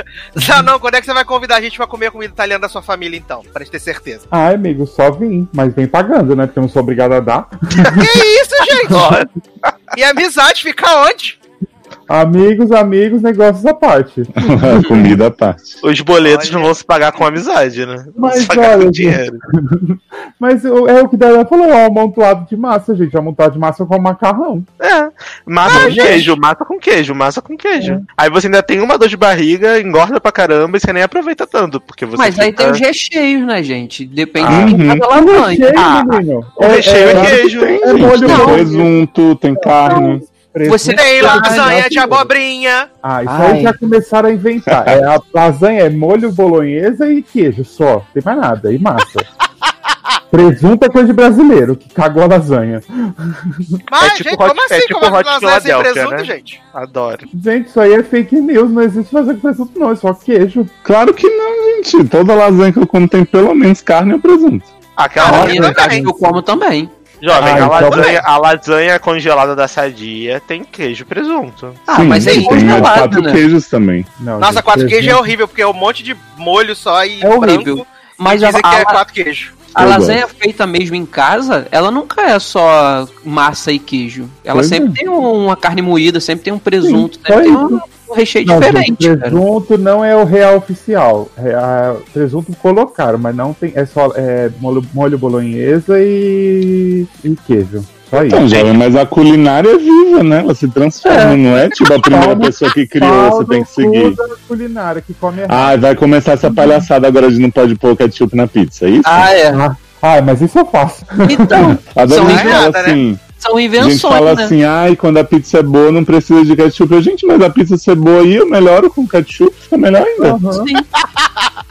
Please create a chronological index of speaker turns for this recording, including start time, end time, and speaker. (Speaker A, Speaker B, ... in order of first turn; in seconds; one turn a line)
Speaker A: 0.3-4.2
Speaker B: 4.3-8.1
Speaker A: 7.9-9.1
Speaker C: 8.9-9.7
Speaker A: 9.9-11.4
Speaker B: 12.1-14.9
Speaker D: 14.4-15.8
Speaker C: 15.8-19.4
Speaker A: 16.2-16.7
Speaker B: 18.2-24.7
Speaker C: 24.8-32.8
Speaker E: 25.6-26.3
Speaker A: 25.7-26.0
Speaker B: 25.7-26.1
Speaker B: 27.8-28.0
Speaker E: 32.1-36.2
Speaker C: 34.4-34.8
Speaker D: 34.5-35.1
Speaker B: 35.1-39.0
Speaker C: 36.6-38.4
Speaker D: 37.0-40.2
Speaker E: 38.2-38.6
Speaker B: 39.6-42.3
Speaker E: 40.6-41.8
Speaker A: 41.0-42.9
Speaker B: 43.0-49.3
Speaker E: 43.2-43.8
Speaker D: 44.7-45.0
Speaker B: 50.3-53.8
Speaker A: 53.9-56.6
Speaker C: 54.0-57.3
Speaker B: 57.3-60.7
Speaker D: 60.8-64.7
Speaker C: 65.0-65.9
Speaker A: 65.2-66.1
Speaker E: 65.2-66.9
Speaker B: 65.8-66.1
Speaker C: 67.2-71.9
Speaker B: 67.4-68.1
Speaker D: 67.4-68.0
Speaker A: 67.9-68.2
Speaker E: 71.9-73.4
Speaker D: 71.9-74.1
Speaker A: 72.2-72.7
Speaker B: 74.2-75.3
Speaker A: 74.4-79.6
Speaker E: 77.2-79.0
Speaker D: 79.7-80.2
Speaker E: 79.7-89.4
Speaker B: 84.7-85.0
Speaker B: 86.8-87.8
Speaker B: 88.4-98.4
Speaker D: 98.3-104.2
Speaker C: 98.5-98.8
Speaker E: 101.0-101.5
Speaker B: 102.1-105.8
Speaker D: 105.5-109.3
Speaker B: 106.4-106.8
Speaker E: 109.0-109.6
Speaker B: 109.5-111.8
Speaker E: 111.2-112.7
Speaker D: 111.5-113.2
Speaker A: 112.1-113.0
Speaker E: 113.4-114.5
Speaker D: 113.8-120.4
Speaker B: 120.2-120.7
Speaker E: 120.6-120.8
Speaker A: 121.0-121.4